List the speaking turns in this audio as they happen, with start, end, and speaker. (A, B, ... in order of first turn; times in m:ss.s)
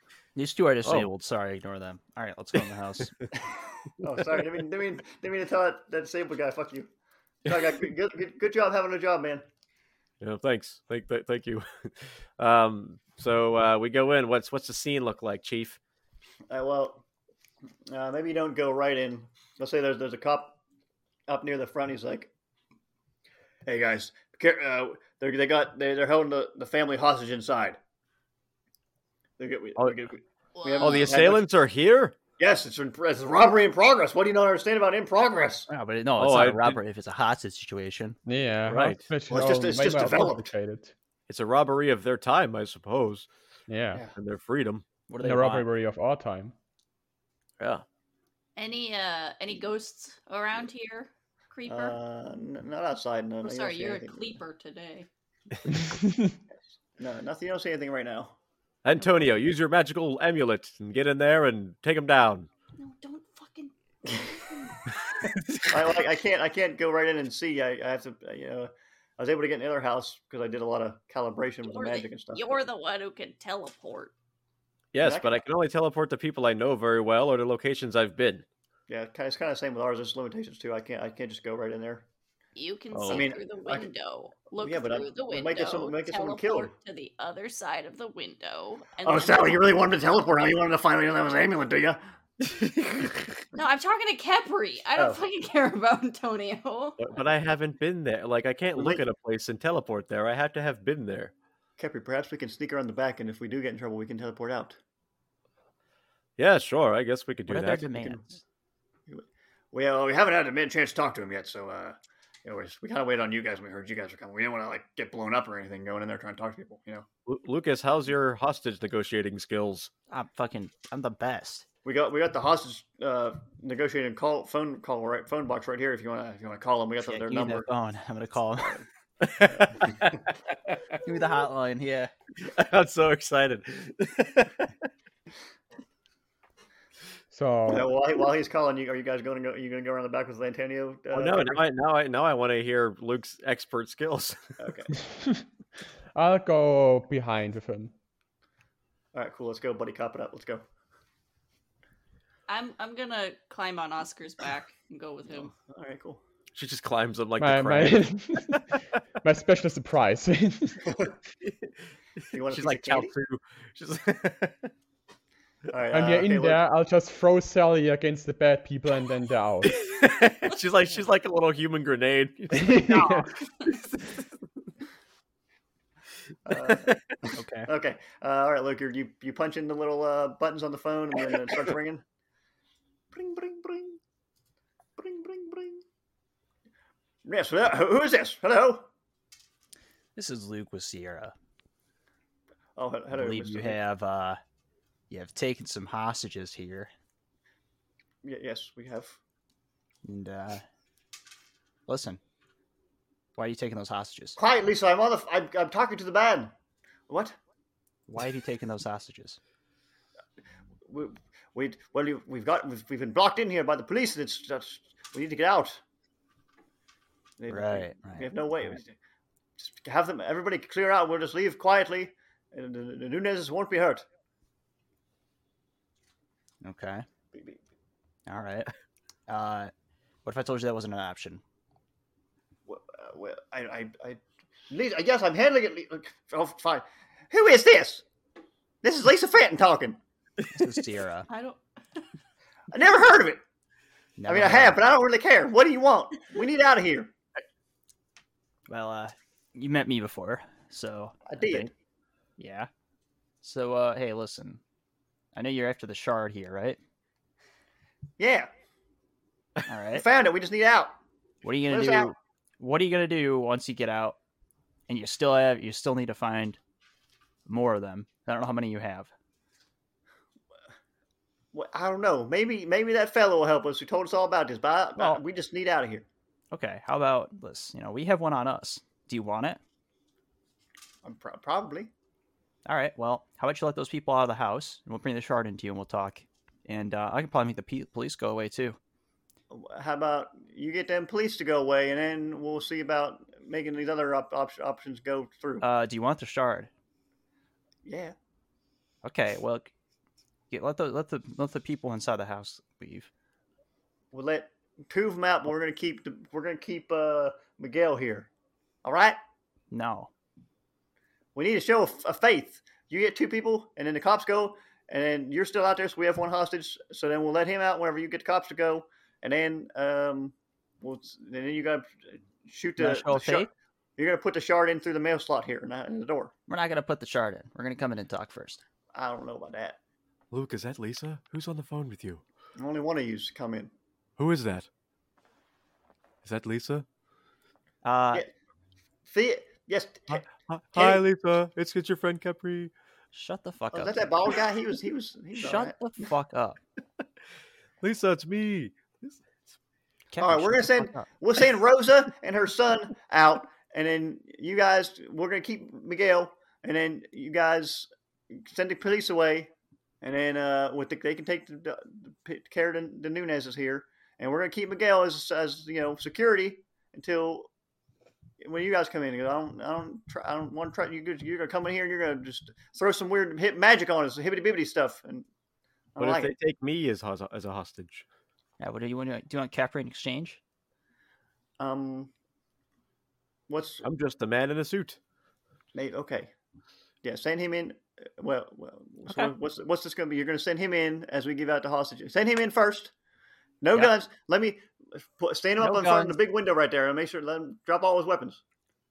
0:00.4-0:03.1 A
0:03.4-0:06.9 B
0:07.4-0:09.4 B
0:10.2-0:15.8 C
0:16.5-0:17.0 B
0:17.9-0:20.6 B
0:21.3-0:22.3 B
0:23.6-0:27.8 B
0:29.4-0:31.4 B
0:30.6-0:31.1 D
0:30.8-0:32.2 C
0:32.4-0:35.7 B
0:35.7-0:38.2 A
0:36.2-0:36.8 C
0:38.2-0:40.9 E
0:38.7-0:39.1 C
0:39.3-0:40.5 B
0:41.3-0:43.3 C
0:43.7-0:44.1 E
0:44.2-0:44.8 C
0:45.1-0:45.7 A
0:45.2-0:46.5 E
0:47.6-0:47.8 C
0:48.6-0:52.0 D
0:51.7-0:54.4 B
0:53.4-0:55.1 D
0:55.8-0:56.4 E
0:56.8-0:58.4 B
0:58.8-1:02.5 C
1:02.8-1:05.0 D
1:05.2-1:05.8 C
1:05.7-1:12.6 B
1:11.6-1:14.1 D
1:14.9-1:18.5 C
1:15.0-1:15.4 B
1:18.9-1:22.1 B
1:22.6-1:29.6 D
1:22.9-1:23.3 C
1:23.1-1:23.9 B
1:24.6-1:26.7 B
1:29.0-1:32.0 B
1:32.4-1:33.3 C
1:33.6-1:37.0 D
1:35.0-1:35.2 B
1:37.0-1:41.3 C
1:38.7-1:39.0 B
1:41.8-1:44.8 B
1:46.4-1:47.9 C
1:47.5-1:48.2 A
1:48.0-1:48.3 B
1:49.1-1:57.1 B
1:57.3-1:59.9 C
2:00.1-2:01.6 A
2:01.8-2:07.7 B
2:07.0-2:08.8 A
2:09.2-2:10.8 C
2:09.5-2:10.2 B
2:11.0-2:12.1 A
2:12.4-2:14.7 C
2:17.3-2:17.9 E
2:17.7-2:21.6 B
2:21.1-2:24.4 C
2:24.6-2:25.0 B
2:26.2-2:27.9 E
2:29.1-2:30.6 B
2:32.5-2:35.5 D
2:35.3-2:36.2 B
2:36.6-2:38.8 C
2:37.4-2:38.7 E
2:39.2-2:41.0 E
2:41.4-2:41.7 C
2:42.3-2:43.1 B
2:42.4-2:44.7 C
2:45.7-2:46.6 B
2:45.9-2:49.8 E
2:49.7-2:53.1 C
2:52.6-2:53.3 E
2:52.7-2:53.3 A
2:56.5-2:57.0 B
2:56.5-2:57.0 C
2:57.4-2:57.7 A
2:57.7-3:02.0 B
3:03.1-3:04.0 B
3:05.0-3:05.8 B
3:07.2-3:08.9 B
3:10.2-3:11.3 A
3:12.8-3:13.8 B
3:13.1-3:14.4 A
3:15.1-3:16.9 A
3:18.2-3:19.2 B
3:20.0-3:20.6 A
3:21.9-3:22.2 A
3:23.4-3:24.4 A
3:24.4-3:26.5 B
3:27.1-3:27.4 B
3:28.1-3:29.4 A
3:30.9-3:35.8 B
3:37.4-3:39.0 B
3:37.5-3:38.4 A
3:39.6-3:44.1 B
3:46.6-3:47.1 A
3:47.3-3:47.6 B
3:48.3-3:48.7 A
3:49.3-3:49.7 A
3:50.2-3:51.4 A
3:52.7-3:58.0 B
3:58.8-4:00.0 B
4:00.5-4:01.3 A
4:01.3-4:02.0 D
4:02.7-4:03.4 B
4:04.2-4:04.8 A
4:04.3-4:07.1 B
4:08.7-4:11.7 A
4:11.3-4:11.7 B
4:12.4-4:12.7 A
4:13.4-4:14.6 A
4:15.3-4:16.8 A
4:18.2-4:18.5 B
4:19.7-4:20.0 A
4:19.9-4:21.0 B
4:21.4-4:24.2 A
4:21.7-4:22.1 B
4:24.9-4:26.6 A
4:27.5-4:29.1 A
4:31.5-4:36.1 B
4:36.5-4:39.6 A
4:41.0-4:41.9 B
4:42.7-4:48.8 A
4:49.5-4:55.7 B
4:55.6-4:56.7 A
4:57.8-4:58.2 B
4:59.0-4:59.7 A
5:00.5-5:03.1 A
5:04.1-5:08.3 B
5:08.8-5:09.2 B
5:09.7-5:10.1 A
5:11.4-5:26.3 B
5:22.8-5:23.5 A
5:26.5-5:28.6 A
5:28.9-5:29.8 B
5:30.3-5:32.2 C
5:32.6-5:33.7 B
5:34.2-5:34.7 C
5:36.2-5:36.8 C
5:37.8-5:38.3 A
5:39.1-5:41.0 B
5:40.1-5:42.7 C
5:43.1-5:44.1 A
5:43.7-5:45.8 B
5:45.4-5:46.6 A
5:47.8-5:49.2 C
5:50.1-5:51.1 A
5:50.2-6:07.5 B
6:08.4-6:15.3 B
6:16.0-6:16.3 B
6:16.0-6:18.0 C
6:18.6-6:20.4 A
6:21.6-6:22.1 B
6:23.5-6:23.9 B
6:23.8-6:25.0 C
6:25.7-6:26.3 B
6:27.0-6:32.9 B
6:29.1-6:29.3 A
6:33.6-6:38.4 B
6:35.6-6:36.2 A